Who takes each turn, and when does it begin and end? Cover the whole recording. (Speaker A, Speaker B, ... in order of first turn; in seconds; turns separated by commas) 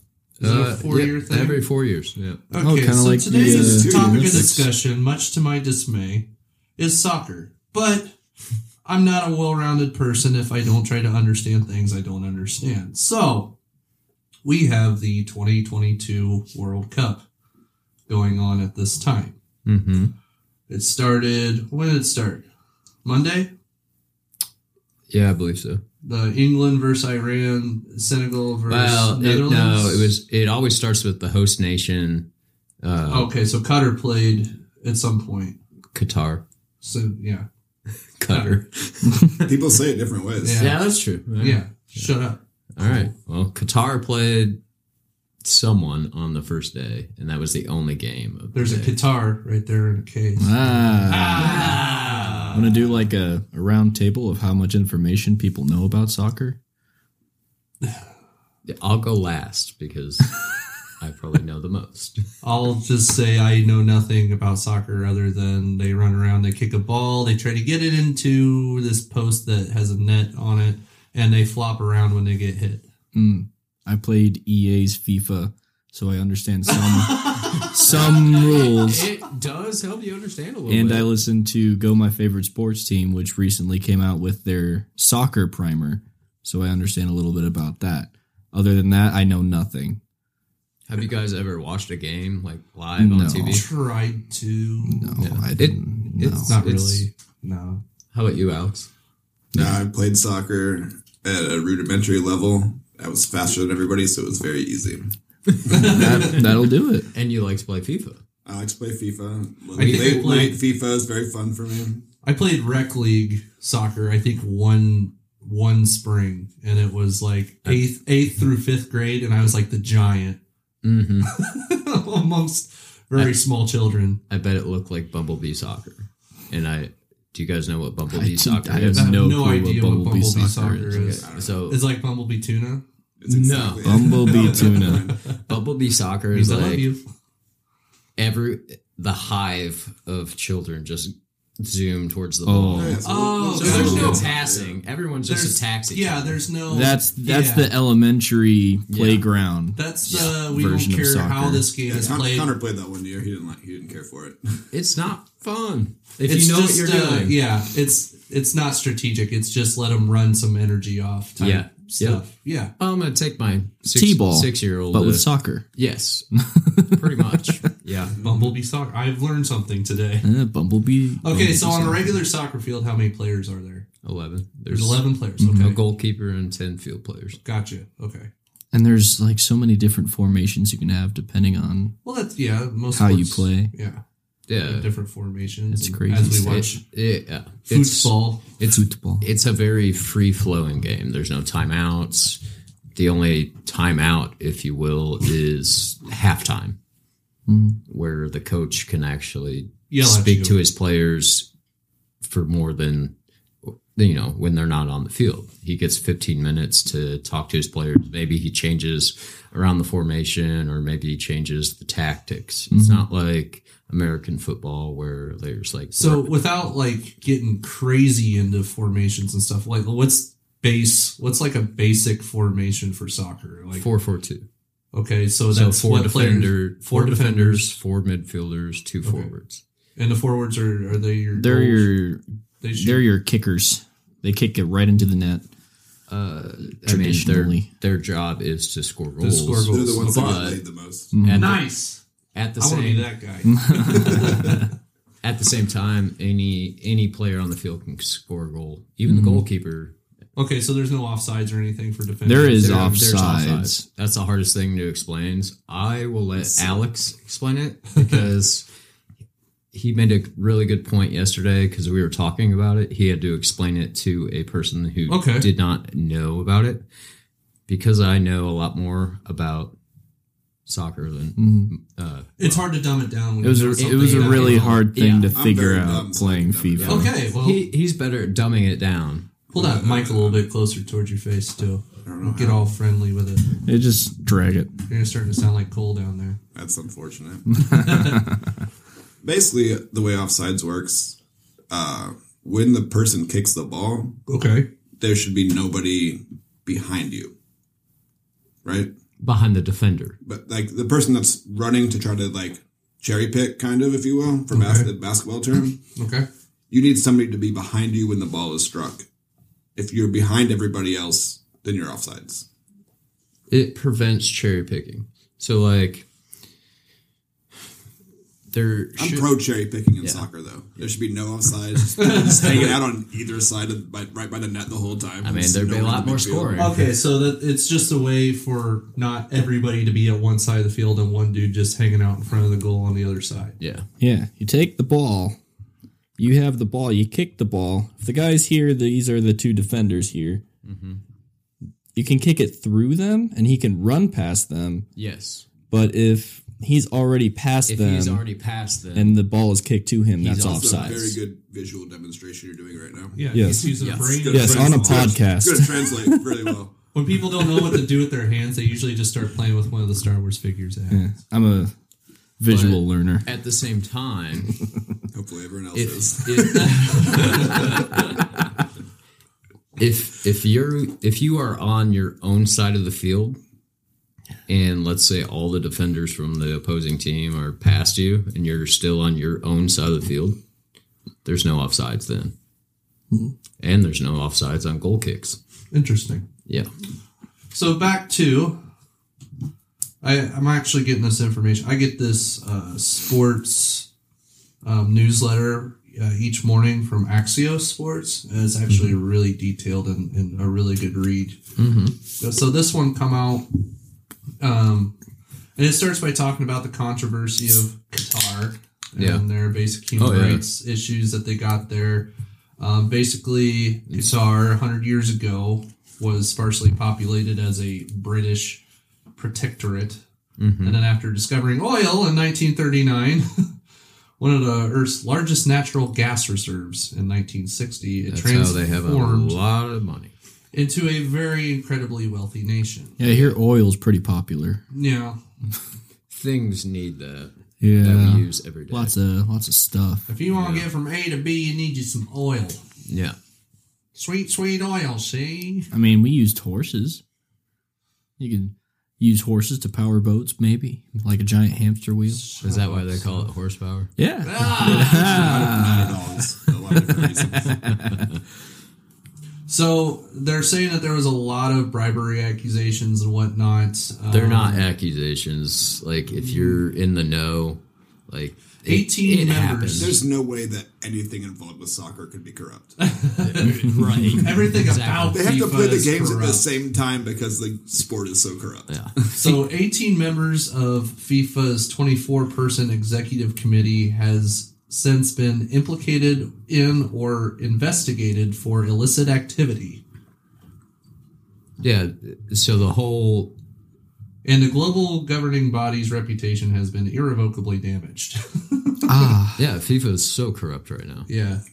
Speaker A: 0.4-1.6, Speaker B: 0.4-2.4, Speaker A: 2.5-6.3, Speaker C: 2.6-4.7, Speaker D: 3.3-4.5, Speaker A: 6.8-8.2, Speaker A: 8.8-13.6, Speaker A: 14.4-17.2, Speaker A: 18.1-19.4, Speaker B: 19.6-20.1, Speaker A: 20.7-22.4, Speaker A: 23.0-23.5, Speaker B: 25.1-25.8, Speaker A: 26.0-30.1, Speaker B: 28.7-32.3, Speaker B: 32.8-33.3, Speaker A: 33.1-35.6, Speaker B: 35.9-36.4, Speaker A: 36.8-37.5, Speaker B: 38.2-39.5, Speaker A: 38.3-38.6, Speaker D: 39.4-40.6, Speaker A: 40.4-40.8, Speaker B: 40.6-42.1, Speaker A: 41.4-43.1, Speaker B: 42.8-44.6, Speaker B: 45.4-49.0, Speaker A: 48.5-52.6, Speaker C: 50.4-51.8, Speaker B: 51.3-52.8, Speaker C: 52.5-56.6, Speaker B: 58.6-62.2, Speaker A: 62.4-72.9, Speaker C: 73.1-79.1, Speaker A: 76.7-78.1, Speaker B: 77.6-81.1, Speaker C: 80.7-90.0, Speaker B: 90.9-93.7, Speaker C: 93.0-93.6, Speaker A: 93.4-95.2, Speaker C: 94.8-96.6, Speaker B: 95.2-97.0, Speaker A: 96.4-97.8, Speaker B: 98.1-98.9, Speaker D: 99.5-105.1, Speaker B: 105.5-106.5, Speaker A: 105.7-106.4, Speaker C: 105.7-107.1, Speaker B: 107.1-108.2, Speaker D: 108.5-112.0, Speaker A: 109.7-110.5, Speaker B: 109.8-110.4, Speaker A: 112.2-120.4, Speaker B: 120.8-121.3, Speaker A: 121.3-124.2, Speaker B: 124.3-129.2, Speaker C: 128.1-131.1, Speaker A: 128.9-132.8, Speaker B: 130.9-131.8, Speaker D: 131.2-131.6, Speaker D: 133.2-135.3, Speaker B: 133.3-134.1, Speaker C: 133.8-135.1, Speaker A: 134.0-135.4, Speaker B: 135.4-136.8, Speaker A: 136.3-137.0, Speaker B: 138.2-146.4, Speaker C: 142.4-143.0, Speaker D: 142.7-144.8, Speaker A: 143.0-144.3, Speaker C: 143.8-144.1, Speaker A: 145.2-147.7, Speaker C: 146.7-151.7, Speaker B: 148.9-149.2, Speaker A: 149.8-152.5, Speaker B: 150.1-150.3, Speaker D: 151.9-154.6, Speaker B: 154.7-157.4, Speaker A: 156.2-162.7, Speaker B: 161.4-162.2, Speaker B: 162.8-168.2, Speaker C: 163.9-165.7, Speaker C: 166.3-167.7, Speaker D: 168.1-168.6, Speaker A: 168.2-170.3, Speaker C: 170.2-172.2, Speaker A: 171.2-173.8, Speaker B: 174.0-177.4, Speaker A: 174.7-175.8, Speaker C: 175.4-175.7, Speaker A: 177.4-178.3, Speaker C: 178.7-181.9, Speaker A: 182.0-184.0, Speaker C: 182.9-183.7, Speaker B: 184.5-184.9, Speaker A: 184.6-186.8, Speaker C: 185.7-186.7, Speaker B: 186.4-192.4, Speaker A: 187.7-188.4, Speaker C: 188.7-189.2, Speaker B: 192.9-196.8, Speaker C: 197.5-197.8, Speaker B: 197.9-201.5, Speaker A: 199.9-200.6, Speaker B: 202.2-203.1, Speaker B: 203.6-216.4, Speaker C: 212.7-213.1, Speaker A: 215.9-223.8, Speaker B: 223.7-224.4, Speaker A: 224.9-227.8, Speaker B: 225.5-229.6, Speaker A: 229.0-229.3, Speaker A: 229.9-231.9, Speaker C: 231.3-232.2, Speaker A: 232.6-233.0, Speaker C: 232.8-235.5, Speaker B: 236.1-240.6, Speaker C: 236.8-237.7, Speaker A: 239.2-240.4, Speaker D: 239.7-241.1, Speaker C: 241.1-241.6, Speaker B: 241.2-241.6, Speaker A: 241.3-242.0, Speaker B: 242.3-243.1, Speaker A: 242.6-244.7, Speaker C: 243.4-244.7, Speaker B: 245.2-249.9, Speaker C: 249.1-249.4, Speaker A: 250.3-253.1, Speaker C: 252.2-253.8, Speaker B: 252.6-258.6, Speaker D: 256.5-256.8, Speaker A: 257.9-258.3, Speaker B: 259.7-266.9, Speaker A: 265.1-265.5, Speaker B: 267.7-269.8, Speaker B: 270.7-272.7, Speaker C: 271.4-271.7, Speaker A: 272.4-274.8, Speaker C: 273.4-277.1, Speaker B: 273.8-275.3, Speaker D: 275.3-277.1, Speaker B: 276.8-279.3, Speaker A: 276.8-277.6, Speaker D: 279.5-280.4, Speaker A: 279.5-283.4, Speaker D: 282.0-282.7, Speaker C: 283.6-284.7, Speaker A: 284.9-286.4, Speaker D: 286.5-287.6, Speaker C: 287.6-288.5, Speaker A: 287.6-288.2, Speaker D: 289.2-291.2, Speaker D: 291.7-294.2, Speaker A: 294.3-294.7, Speaker D: 295.0-297.3, Speaker D: 298.6-298.9, Speaker B: 299.2-300.1, Speaker D: 300.2-305.8, Speaker A: 304.5-304.9, Speaker A: 305.9-306.3, Speaker D: 306.7-309.0, Speaker D: 309.8-312.4, Speaker B: 313.5-316.1, Speaker B: 318.5-319.3, Speaker D: 319.0-326.7, Speaker B: 320.0-320.2, Speaker A: 322.0-322.8, Speaker B: 325.2-326.9, Speaker A: 326.6-333.6, Speaker B: 333.6-333.9, Speaker C: 334.0-335.4, Speaker C: 336.2-340.4, Speaker B: 340.6-341.0, Speaker C: 341.9-344.9, Speaker B: 344.9-345.5, Speaker C: 345.7-348.2, Speaker B: 347.7-349.2, Speaker C: 348.9-351.2, Speaker B: 350.2-351.1, Speaker D: 350.5-353.2, Speaker A: 353.1-355.1, Speaker C: 353.3-356.5, Speaker B: 353.8-354.2, Speaker D: 354.0-356.7, Speaker A: 356.9-361.1, Speaker C: 360.9-361.7, Speaker C: 362.4-363.2, Speaker B: 362.5-364.5, Speaker D: 365.1-367.9, Speaker B: 365.7-368.5, Speaker A: 366.5-367.6, Speaker B: 369.8-373.4, Speaker B: 374.5-380.4, Speaker B: 381.2-382.3, Speaker B: 383.6-385.4, Speaker A: 385.7-386.2, Speaker A: 387.5-388.6, Speaker A: 390.0-393.9, Speaker A: 394.6-401.4, Speaker B: 401.6-401.9, Speaker A: 402.2-403.5, Speaker A: 404.4-404.9, Speaker A: 405.6-418.6, Speaker B: 409.0-409.2, Speaker B: 409.9-410.4, Speaker A: 419.1-420.0, Speaker B: 420.4-420.8, Speaker A: 420.6-423.6, Speaker A: 424.2-429.3, Speaker B: 428.1-430.1, Speaker A: 430.5-433.3, Speaker C: 433.0-434.6, Speaker A: 434.7-435.2, Speaker B: 436.1-438.9, Speaker C: 437.6-440.1, Speaker A: 440.1-442.6, Speaker B: 440.3-440.7, Speaker B: 442.9-443.2, Speaker A: 443.9-445.7, Speaker C: 445.7-447.0, Speaker C: 448.2-452.3, Speaker A: 452.1-453.3, Speaker B: 452.4-453.9, Speaker C: 454.0-456.0, Speaker A: 454.2-455.7, Speaker D: 454.7-457.7, Speaker C: 457.4-458.1, Speaker B: 457.7-458.2, Speaker A: 459.5-464.7, Speaker B: 464.1-470.0, Speaker A: 466.1-466.6, Speaker A: 468.6-469.9, Speaker D: 469.7-472.8, Speaker A: 472.8-476.4, Speaker B: 473.2-475.2, Speaker D: 475.1-479.1, Speaker B: 478.7-479.1, Speaker A: 479.1-489.8, Speaker B: 491.6-493.3, Speaker A: 494.2-499.1, Speaker C: 498.9-499.4, Speaker B: 499.4-501.1, Speaker A: 501.1-501.4